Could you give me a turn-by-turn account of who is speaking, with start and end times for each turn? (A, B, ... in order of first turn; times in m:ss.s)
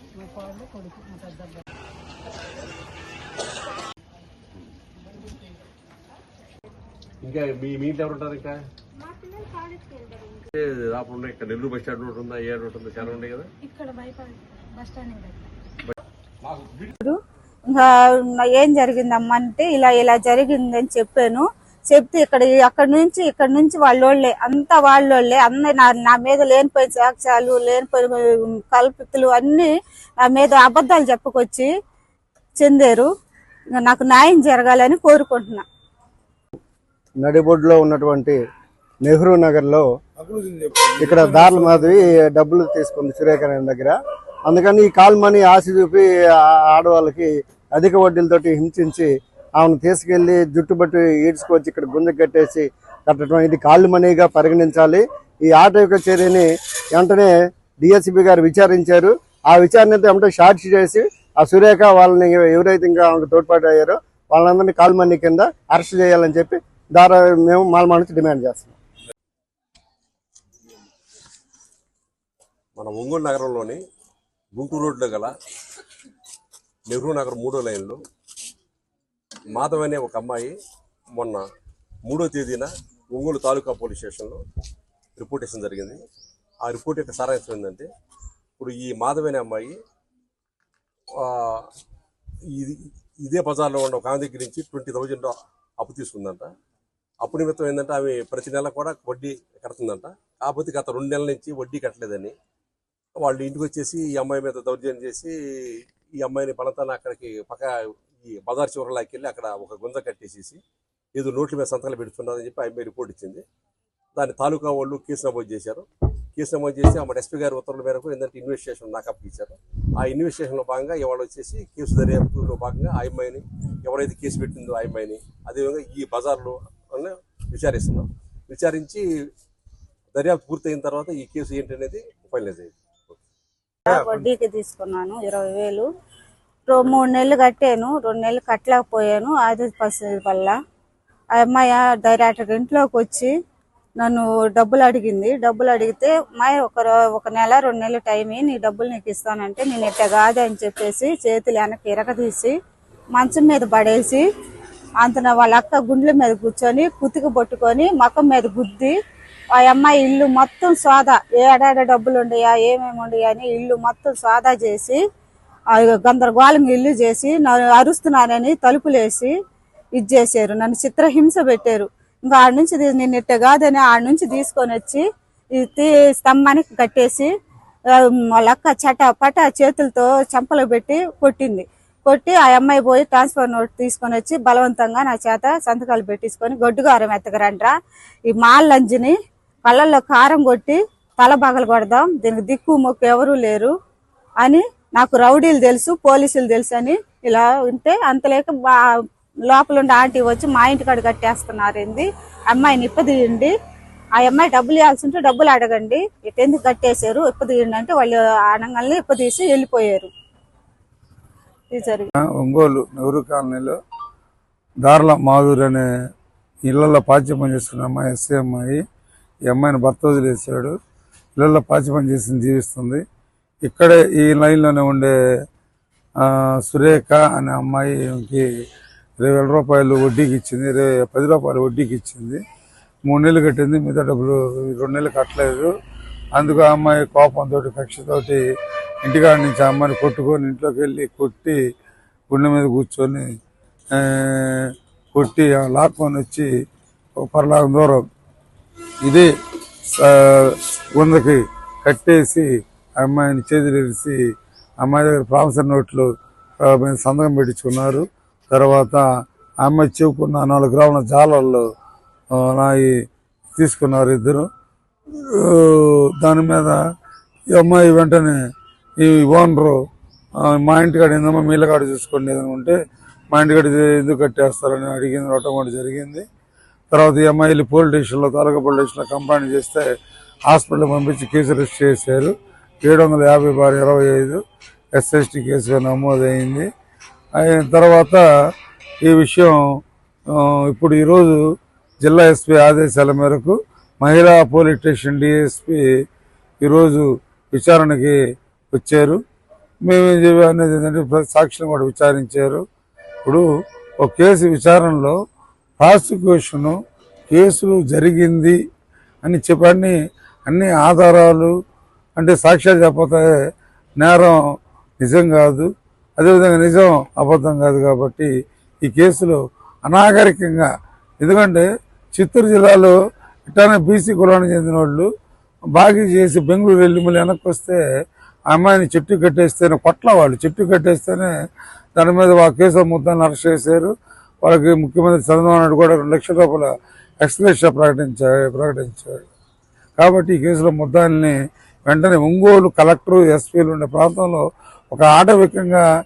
0:00.1-0:01.6 A
0:07.2-0:08.6 B
0:09.2-0:10.4 A
0:10.5-0:13.5 B
0:13.6-0:15.5 A
0:15.9-0:16.9 B
0:17.7-0:31.7 C
0:32.6-0:33.1 C
0:33.8-0:35.6 C
0:37.2-0:38.4 D
0:39.0-0:39.8 D
0:40.2-0:42.1 E
0:41.0-1:08.8 D
1:12.8-1:13.8 B
1:14.5-1:15.3 B
1:16.9-1:18.0 B
1:19.5-1:20.5 B
1:21.1-1:21.4 B
1:22.1-1:24.4 B
1:25.2-1:26.0 B
1:26.6-1:27.9 B
1:28.6-1:29.8 B
1:31.2-1:31.7 B
1:32.5-1:36.5 B
1:37.2-1:42.3 B
1:43.2-1:45.3 B
1:46.2-1:50.6 B
1:51.1-1:53.4 B
1:54.1-2:09.0 B
2:10.1-2:13.2 B
2:13.8-2:15.9 C
2:16.7-2:20.6 C
2:21.3-2:23.3 C
2:24.0-2:32.6 C
2:33.1-2:34.2 C
2:35.0-2:39.0 C
2:39.5-2:45.0 C
2:45.7-2:49.3 C
2:50.0-2:57.3 C
2:57.9-3:07.7 C
3:08.3-3:13.7 C
3:14.4-3:23.5 C
3:24.2-3:30.1 C
3:31.7-3:32.1 C
3:32.2-3:33.8 E
3:34.8-3:35.8 E
3:36.7-3:38.8 E
3:39.5-3:40.8 E
3:41.4-3:43.0 E
3:43.6-3:45.1 E
3:46.2-3:48.4 E
3:49.2-3:52.4 E
3:53.0-3:55.7 E
3:56.3-3:58.4 E
3:59.0-4:01.6 E
4:02.3-4:03.3 E
4:03.9-4:06.5 E
4:07.2-4:08.0 E
4:09.9-4:14.2 E
4:14.8-4:16.1 E
4:16.6-4:19.0 E
4:19.6-4:21.7 E
4:22.3-4:22.9 E
4:23.6-4:24.5 E
4:25.3-4:26.8 E
4:27.5-4:28.4 E
4:29.0-4:29.8 E
4:30.4-4:32.8 E
4:33.3-4:36.2 E
4:36.9-4:39.9 E
4:40.5-4:44.4 E
4:44.9-4:46.7 E
4:47.4-4:48.2 E
4:49.0-4:49.8 E
4:50.3-4:51.4 E
4:52.0-4:55.8 E
4:56.6-4:58.2 E
4:58.7-4:59.2 E
4:59.8-5:02.6 E
5:04.0-5:05.2 E
5:05.8-5:06.8 E
5:07.3-5:08.6 E
5:09.2-5:09.9 E
5:10.4-5:11.5 E
5:12.2-5:13.2 E
5:14.0-5:14.4 E
5:15.0-5:18.3 E
5:18.8-5:20.7 E
5:21.2-5:22.9 E
5:23.5-5:25.1 E
5:25.7-5:27.8 E
5:28.5-5:31.3 E
5:31.9-5:33.9 E
5:34.4-5:36.7 E
5:37.2-5:39.2 E
5:40.0-5:41.3 E
5:41.9-5:45.8 E